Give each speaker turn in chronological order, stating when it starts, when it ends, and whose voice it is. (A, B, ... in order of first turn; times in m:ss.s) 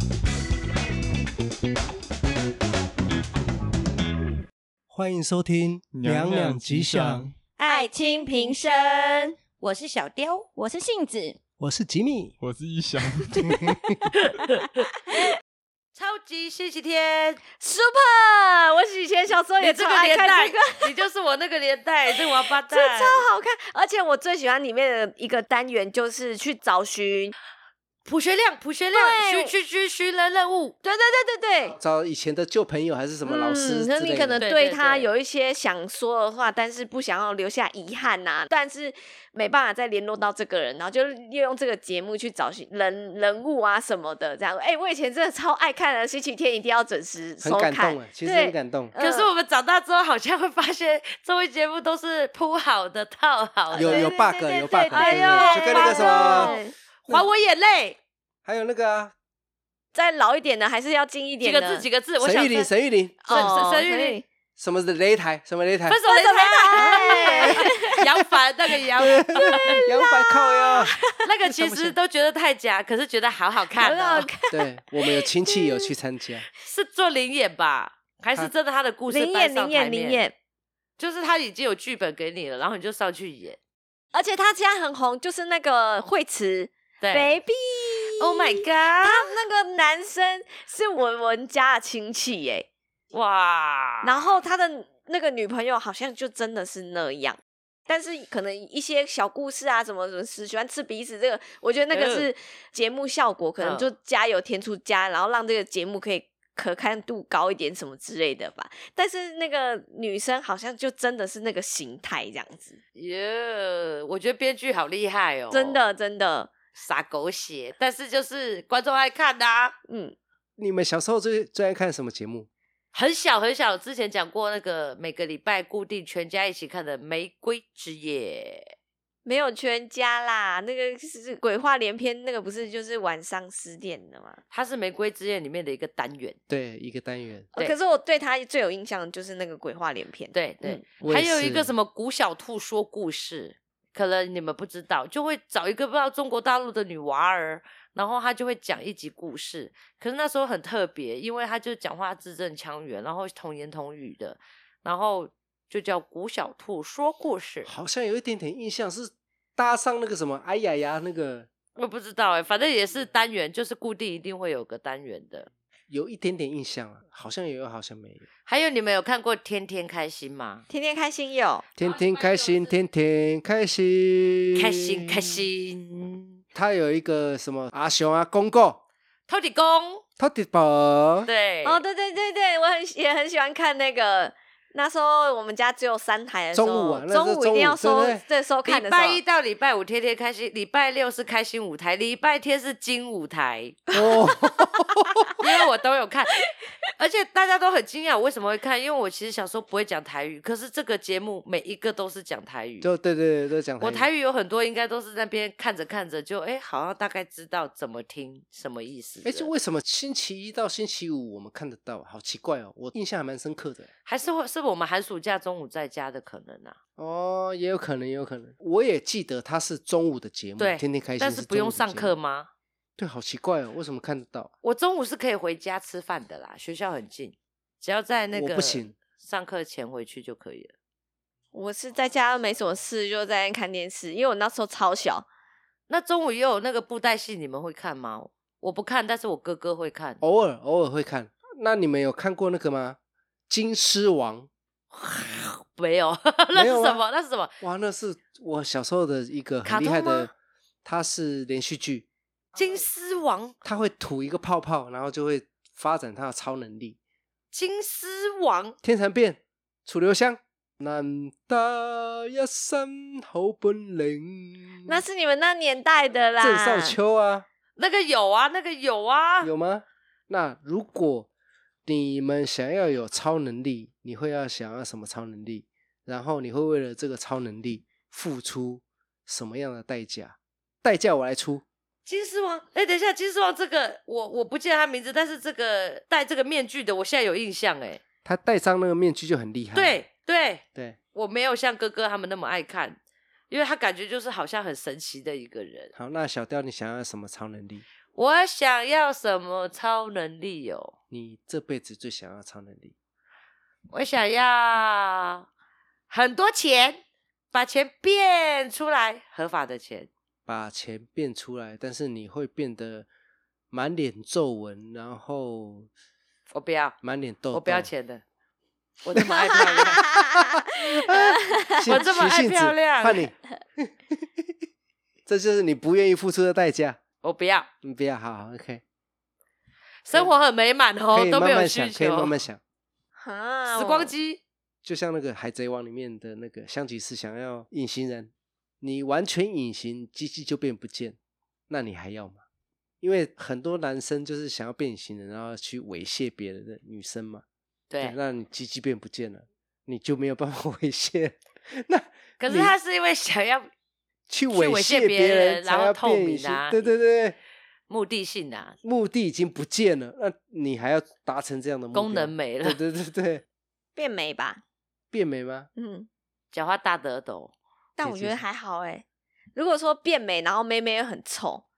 0:04.9-0:07.3 A
0:05.9-0:07.3 B
0:07.6-0:08.0 C
0:07.7-0:09.4 D
0:09.6-0:10.5 C
0:10.6-0:11.3 D
0:11.6-0:12.4 A
0:12.4-0:13.7 B
0:13.3-0:13.7 D
0:13.5-0:13.9 A
0:14.4-0:14.6 C
0:15.9-0:17.4 C
0:17.6-0:21.0 D
0:19.6-0:23.2 C
0:22.1-0:27.3 D
0:28.0-0:30.7 C
0:28.9-0:29.5 D
0:30.8-0:31.8 D
0:31.8-0:34.4 A
0:33.2-0:49.3 D
0:34.4-0:35.1 C
0:47.4-0:48.9 A
0:49.0-0:54.2 C
0:53.7-0:56.7 D
0:53.8-0:56.5 A
0:54.9-0:58.0 C
0:58.4-0:59.1 A
0:59.9-1:01.8 D
1:01.4-1:02.7 C
1:02.2-1:03.5 A
1:03.2-1:04.2 D
1:03.3-1:04.2 C
1:04.6-1:06.0 A
1:05.9-1:09.8 C
1:06.0-1:08.0 D
1:06.7-1:08.0 A
1:09.0-1:12.0 A
1:09.4-1:11.2 D
1:11.2-1:14.3 C
1:13.8-1:15.9 D
1:14.5-1:16.5 A
1:16.6-1:20.2 C
1:19.1-1:20.3 D
1:21.0-1:23.6 C
1:24.1-1:32.7 D
1:27.0-1:27.4 C
1:28.2-1:29.3 C
1:33.1-1:34.2 C
1:34.0-1:52.8 D
1:41.9-1:42.3 C
1:43.6-1:43.9 C
1:52.9-1:55.8 C
1:55.5-1:56.5 D
1:56.7-1:59.8 C
1:59.9-2:00.2 D
2:00.6-2:02.5 A
2:02.9-2:08.7 C
2:09.2-2:14.4 D
2:14.5-2:16.4 C
2:16.5-2:17.5 A
2:17.5-2:20.8 D
2:20.3-2:37.7 C
2:21.0-2:21.7 A
2:37.6-2:41.5 A
2:41.8-2:45.5 C
2:45.9-2:48.2 A
2:48.4-2:50.7 C
2:50.7-2:51.6 D
2:51.8-2:54.7 A
2:54.5-2:56.4 C
2:56.5-2:58.8 A
2:59.3-3:00.0 C
3:00.2-3:01.3 A
3:01.2-3:01.8 C
3:01.6-3:09.2 D
3:06.5-3:08.2 A
3:08.6-3:14.2 C
3:13.9-3:15.2 A
3:15.4-3:16.4 C
3:17.0-3:22.9 C
3:22.8-3:24.1 A
3:23.8-3:29.5 C
3:29.2-3:33.9 A
3:34.0-3:36.8 C
3:37.0-3:42.1 A
3:40.6-3:42.5 C
3:43.0-3:44.5 A
3:44.6-3:50.7 C
3:48.3-3:48.9 A
3:51.5-3:55.3 D
3:55.9-4:00.2 C
4:00.2-4:03.0 A
4:03.5-4:04.5 A
4:04.9-4:07.5 C
4:06.5-4:07.0 A
4:07.6-4:10.3 A
4:09.6-4:10.3 C
4:10.8-4:12.1 A
4:12.6-4:13.6 C
4:13.6-4:17.0 A
4:17.5-4:18.8 C
4:18.8-4:25.0 A
4:24.9-4:27.0 D
4:26.4-4:27.4 A
4:27.8-4:29.5 C
4:29.4-4:31.3 A
4:31.9-4:41.6 A
4:42.0-4:48.0 C
4:48.2-4:50.0 A
4:49.7-4:53.0 C
4:53.5-4:55.9 C
4:55.9-4:57.8 A
4:58.1-5:00.9 C
5:01.1-5:02.9 A
5:03.9-5:05.5 C
5:06.1-5:07.0 C
5:07.5-5:10.1 C
5:10.5-5:13.1 A
5:13.7-5:15.9 A
5:16.5-5:17.0 C
5:17.0-5:17.9 A
5:17.5-5:18.2 C
5:19.0-5:20.1 C
5:19.3-5:24.2 A
5:19.9-5:20.3 D
5:21.8-5:23.3 C
5:25.3-5:27.0 A
5:27.2-5:27.7 C
5:27.8-5:28.8 A
5:30.0-5:32.4 C
5:31.1-5:32.6 A
5:33.2-5:34.1 D
5:33.7-5:34.4 C
5:34.8-5:41.2 A
5:41.7-5:42.4 A
5:43.0-5:47.4 A
5:47.9-5:48.2 C
5:48.0-5:52.7 A
5:52.4-5:53.7 C
5:54.3-5:57.4 A
5:54.5-5:56.9 C
5:57.9-5:58.8 C
5:58.8-6:03.4 A
6:01.9-6:02.8 C
6:04.0-6:04.6 D
6:05.1-6:05.7 A
6:05.8-6:06.1 D
6:06.5-6:07.5 C
6:08.0-6:11.6 D
6:08.0-6:08.4 A